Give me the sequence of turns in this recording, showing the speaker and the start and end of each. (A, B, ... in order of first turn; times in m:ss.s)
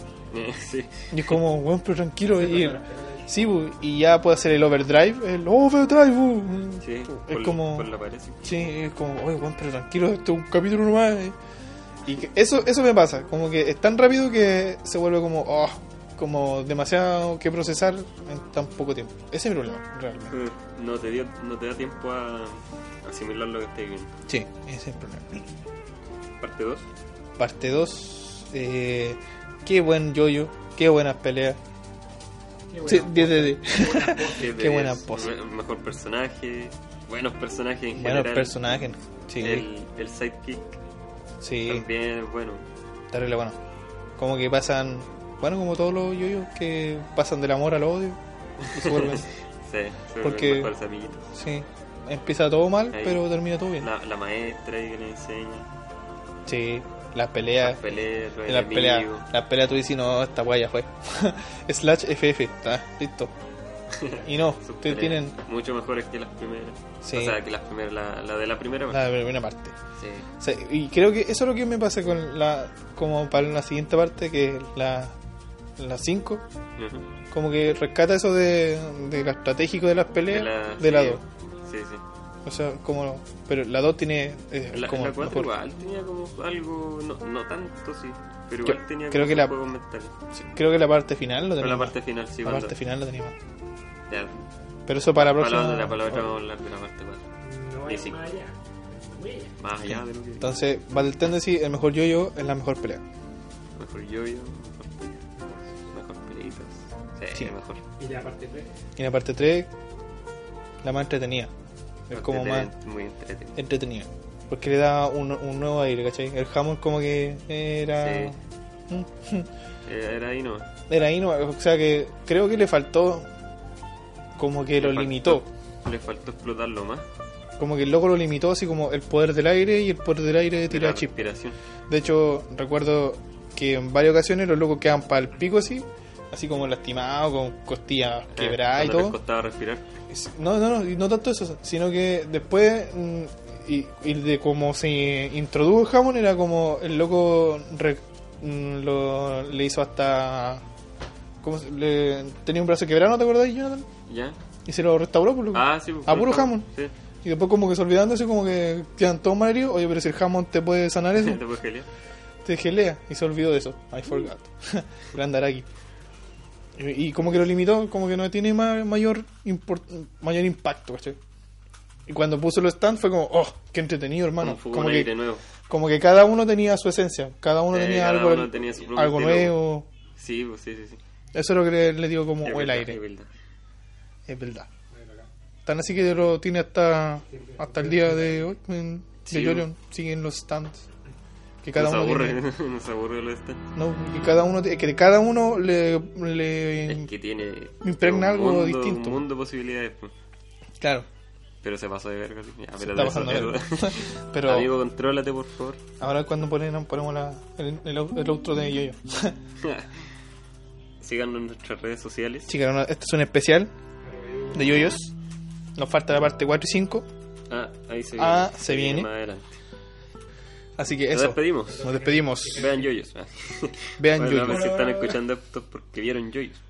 0:00.3-0:01.4 A
0:01.1-0:07.9 B
0:02.4-0:03.3 C
0:06.8-0:08.6 A
0:08.4-0:11.4 B
0:12.0-0:20.3 B
0:20.3-0:24.1 A
0:24.3-0:25.5 B
0:26.4-0:26.8 A
0:27.4-0:31.6 B
0:32.7-0:34.5 C
0:32.8-0:35.4 B
0:34.1-0:38.6 A
0:37.9-0:39.7 B
0:39.4-0:40.8 A
0:41.4-0:41.9 B
0:41.7-0:42.6 A
0:43.1-0:43.6 B
0:44.2-0:48.2 B
0:48.6-0:51.3 A
0:48.7-0:49.3 B
0:50.2-0:50.7 B
0:51.3-0:53.9 B
0:52.9-0:53.2 A
0:53.8-0:55.7 A
0:56.5-0:57.9 B
0:57.6-0:59.2 A
0:58.5-1:03.3 B
1:03.9-1:09.0 A
1:04.2-1:05.4 B
1:07.0-1:07.4 B
1:08.9-1:09.8 B
1:10.0-1:10.3 A
1:10.4-1:15.2 B
1:15.8-1:16.4 B
1:16.8-1:17.1 A
1:17.3-1:21.2 B
1:20.3-1:22.0 A
1:22.4-1:25.5 B
1:24.7-1:30.1 A
1:28.6-1:29.6 B
1:30.3-1:33.4 B
1:31.6-1:32.8 A
1:34.1-1:34.4 A
1:34.9-1:36.3 B
1:35.1-1:37.2 A
1:37.4-1:39.6 C
1:37.8-1:38.2 A
1:39.6-1:40.5 A
1:39.8-1:43.0 B
1:43.8-1:45.3 A
1:45.4-1:45.7 C
1:45.9-1:47.8 A
1:48.0-1:48.7 C
1:49.0-1:49.7 B
1:50.8-1:51.5 B
1:52.1-1:52.7 B
1:52.1-1:53.6 A
1:53.6-1:58.4 B
1:58.0-1:58.4 A
1:58.9-1:59.5 B
1:59.9-2:00.7 A
2:00.9-2:03.3 B
2:04.4-2:05.5 B
2:04.8-2:07.1 A
2:07.6-2:11.2 B
2:10.7-2:11.6 A
2:11.9-2:19.2 B
2:18.3-2:19.9 A
2:20.1-2:30.6 B
2:31.4-2:33.9 B
2:34.1-2:34.4 A
2:34.7-2:36.7 B
2:35.5-2:36.9 A
2:37.2-2:41.4 B
2:41.2-2:41.9 A
2:42.4-2:45.7 B
2:46.8-2:51.2 B
2:52.1-2:55.1 B
2:54.4-2:55.4 A
2:55.7-2:59.9 B
2:57.7-2:59.6 A
3:00.2-3:01.0 A
3:01.3-3:03.0 B
3:02.4-3:03.3 A
3:04.3-3:04.7 B
3:04.9-3:05.3 C
3:05.6-3:10.8 B
3:07.3-3:08.4 C
3:09.2-3:09.7 A
3:11.6-3:12.4 B
3:11.8-3:13.6 A
3:13.8-3:17.1 B
3:16.9-3:20.1 A
3:17.8-3:19.2 B
3:20.8-3:21.1 B
3:21.6-3:25.8 A
3:22.8-3:24.7 B
3:26.0-3:29.4 B
3:29.6-3:30.1 A
3:31.0-3:32.5 A
3:32.5-3:33.7 B
3:34.0-3:35.0 C
3:34.5-3:35.1 B
3:35.8-3:37.1 B
3:37.5-3:39.6 A
3:38.2-3:39.1 B
3:40.8-3:42.7 B
3:41.1-3:41.9 A
3:41.7-3:42.9 C
3:42.5-3:46.6 A
3:44.0-3:45.1 B